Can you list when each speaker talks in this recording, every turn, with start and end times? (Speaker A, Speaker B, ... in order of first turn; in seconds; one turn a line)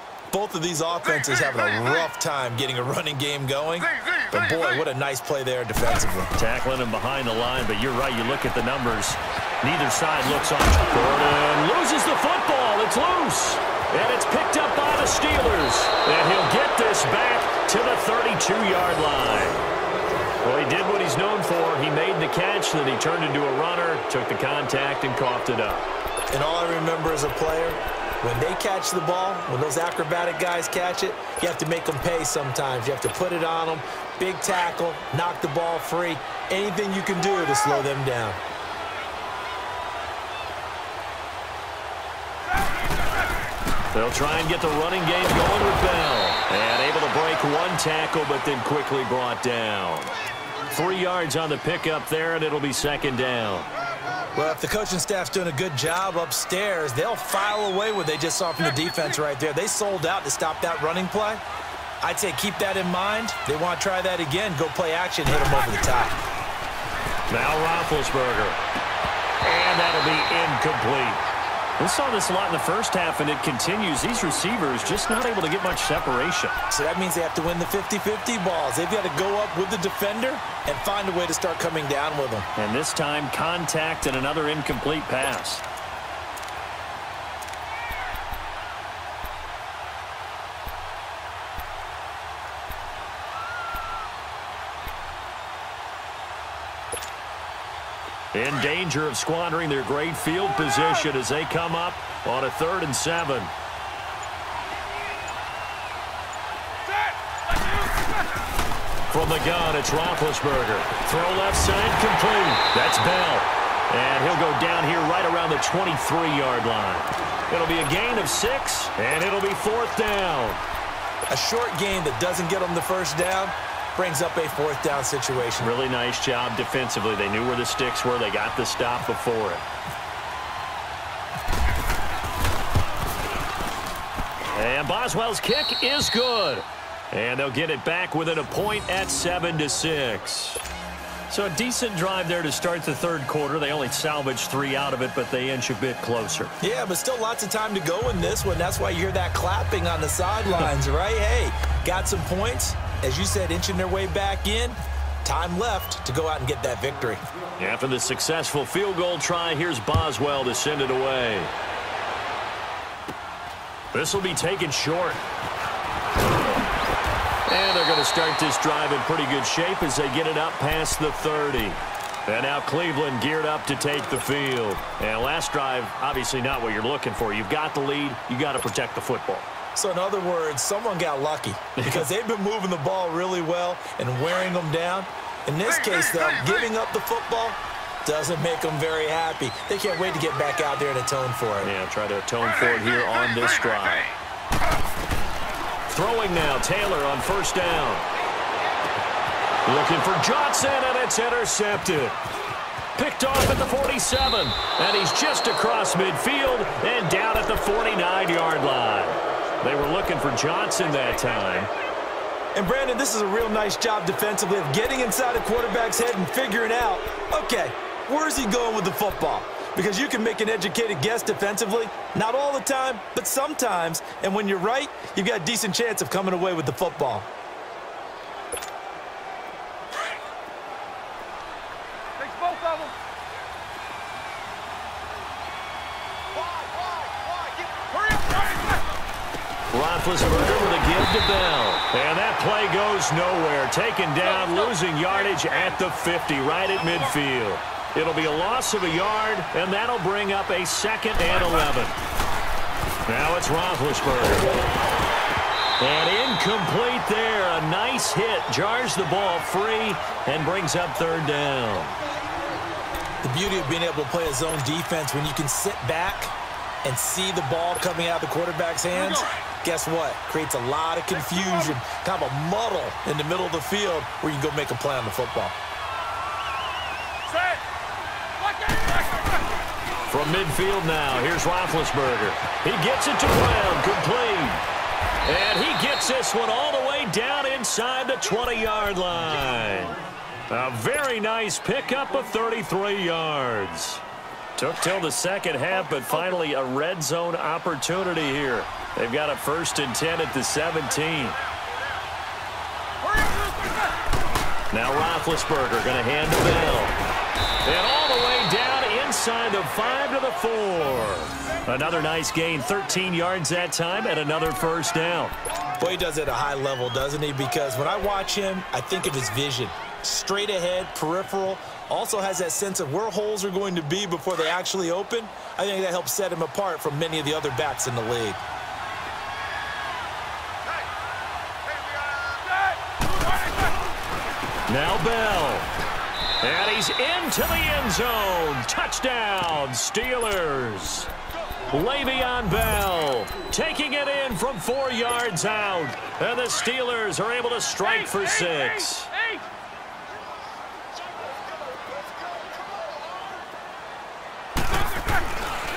Speaker A: 0.3-6.3
Speaker B: 6.4-19.6
Speaker B: 20.4-25.9
Speaker A: 26.3-38.4
Speaker C: 42.4-43.4
Speaker B: 43.9-50.2
Speaker B: 50.7-53.7
Speaker A: 54.4-61.4
Speaker A: 62.0-66.2
Speaker B: 67.3-68.6
Speaker B: 69.4-71.2
Speaker B: 71.8-76.6
Speaker A: 76.7-82.5
Speaker B: 82.5-85.6
Speaker B: 98.3-103.5
Speaker C: 106.8-108.4
Speaker B: 109.1-120.6
Speaker A: 121.3-125.7
Speaker B: 125.6-129.7
Speaker B: 134.5-140.6
Speaker B: 141.3-146.5
Speaker A: 146.6-157.2
Speaker B: 157.6-161.5
Speaker B: 163.9-165.2
Speaker B: 167.5-179.5
Speaker A: 179.8-191.7
Speaker B: 181.8-182.1
Speaker B: 191.6-194.1
Speaker B: 195.9-198.1
Speaker B: 199.7-202.2
Speaker B: 203.0-211.7
Speaker A: 212.6-227.3
Speaker C: 232.2-232.9
Speaker C: 236.3-239.0
Speaker B: 239.7-252.0
Speaker C: 244.3-245.8
Speaker B: 253.1-254.5
Speaker B: 255.8-262.0
Speaker A: 263.2-266.3
Speaker A: 266.8-275.6
Speaker C: 268.9-269.3
Speaker C: 271.2-271.7
Speaker C: 277.3-277.6
Speaker C: 278.4-279.7
Speaker B: 280.1-284.6
Speaker B: 285.3-294.0
Speaker B: 294.6-301.4
Speaker C: 303.0-304.0
Speaker B: 304.7-307.0
Speaker B: 307.6-315.4
Speaker A: 315.8-328.4
Speaker C: 332.3-334.0
Speaker B: 334.7-335.7
Speaker B: 336.4-341.1
Speaker B: 341.7-349.1
Speaker C: 347.8-349.5
Speaker C: 354.6-355.4